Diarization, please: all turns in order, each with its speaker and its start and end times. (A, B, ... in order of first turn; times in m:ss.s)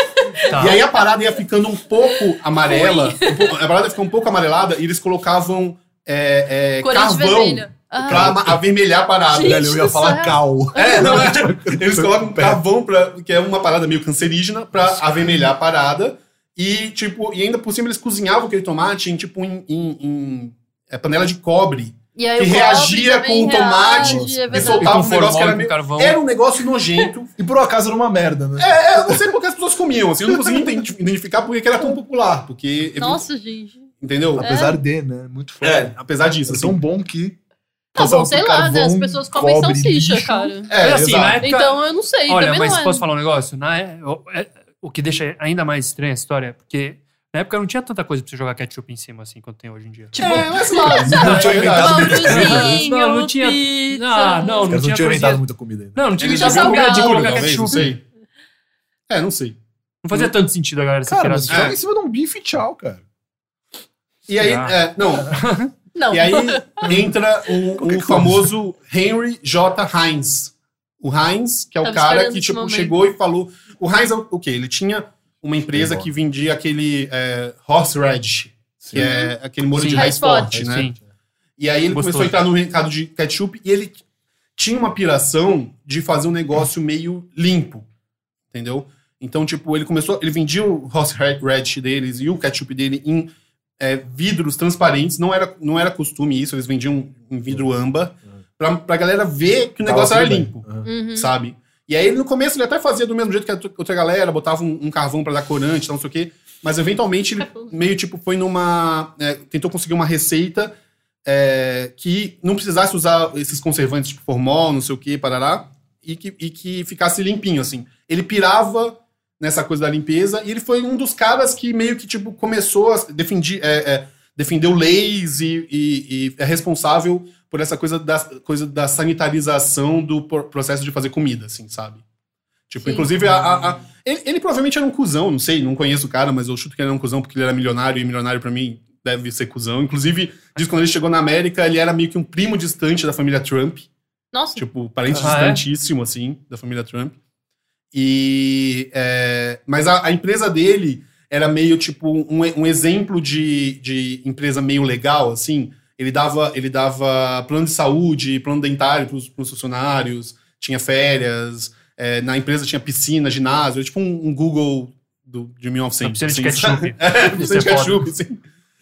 0:00.4-0:00.8 A
0:00.5-0:09.9 B
0:02.6-0:03.5 C
0:06.8-0:08.4 C
0:08.0-0:08.6 D
0:09.3-0:11.4 C
0:09.3-0:12.6 D
0:10.7-0:27.3 B
0:14.8-0:15.5 D
0:22.2-0:24.9 C
0:24.0-0:24.9 D
0:24.8-0:26.2 A
0:27.4-0:29.3 D
0:28.6-0:33.2 B
0:30.3-0:30.6 D
0:33.0-0:33.9 C
0:34.0-0:34.4 B
0:34.4-0:35.9 D
0:34.4-0:34.8 C
0:35.6-0:36.8 B
0:36.4-0:37.4 D
0:37.9-0:40.5 D
0:37.9-0:40.7 C
0:40.6-0:41.4 B
0:40.8-0:50.2 A
0:41.4-0:43.0 C
0:50.1-0:54.8 C
0:50.2-0:52.7 B
0:50.7-0:52.8 D
0:52.3-0:55.4 A
0:54.7-0:56.0 D
0:55.9-0:57.9 A
0:56.2-0:58.0 B
0:56.3-0:57.5 C
0:59.1-0:59.6 B
1:00.0-1:01.7 A
1:01.1-1:03.0 D
1:01.5-1:01.8 B
1:04.3-1:05.4 B
1:04.4-1:04.8 A
1:05.3-1:05.7 A
1:05.9-1:06.8 C
1:06.1-1:20.9 B
1:07.8-1:08.5 D
1:11.8-1:12.9 C
1:15.7-1:16.1 D
1:19.0-1:19.3 C
1:19.7-1:21.0 A
1:19.9-1:20.6 C
1:20.5-1:21.0 D
1:21.6-1:24.0 B
1:21.9-1:22.3 A
1:24.6-1:27.8 B
1:28.5-1:50.7 B
1:39.8-1:40.9 D
1:40.8-1:41.3 C
1:51.2-2:12.0 B
2:12.7-2:23.9 B
2:12.8-2:13.1 C
2:24.3-2:24.6 C
2:24.6-2:27.1 B
2:25.2-2:25.6 A
2:27.9-2:48.4 B
2:46.0-2:48.0 A